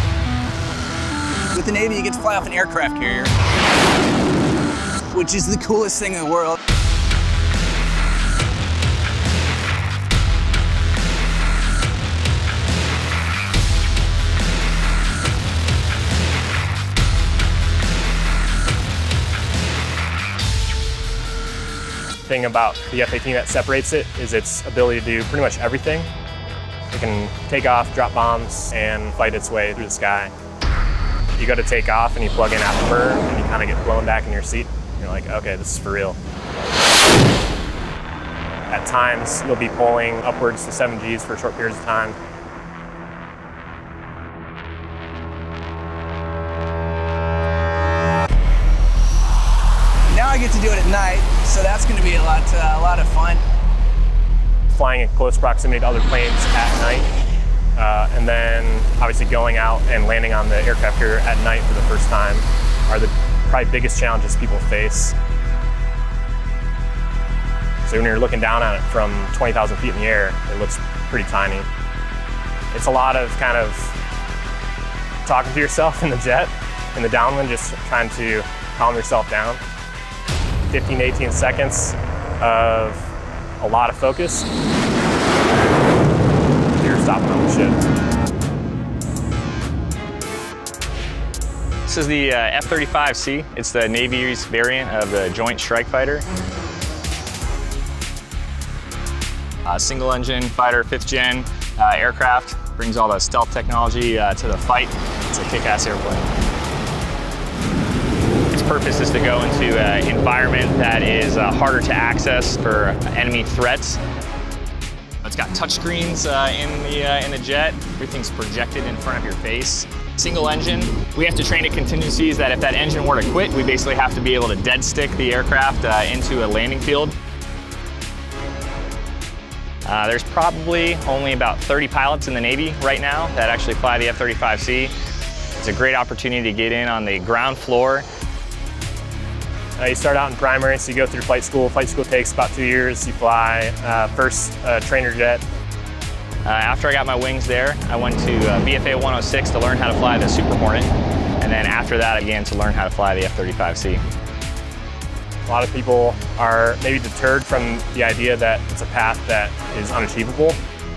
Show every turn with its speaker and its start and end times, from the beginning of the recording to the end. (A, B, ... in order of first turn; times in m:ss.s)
0:01.5-0:03.3 A
0:05.1-0:06.6 A
0:22.3-0:26.1 B
0:26.9-0:30.3 B
0:31.4-0:36.2 B
0:38.7-0:42.2 B
0:50.1-0:53.4 A
0:54.7-0:57.1 B
0:57.8-1:05.1 B
1:07.8-1:11.7 B
1:12.7-1:14.0 B
1:15.2-1:19.6 B
1:20.7-1:24.5 B
1:26.8-1:27.8 B
1:31.8-1:36.3 C
1:39.7-1:46.3 C
1:48.5-1:54.0 C
1:55.2-2:07.1 C
2:09.8-2:14.9 C
2:15.6-2:18.0 C
2:19.8-2:25.4 B
2:26.4-2:34.0 C
2:35.4-2:40.6 B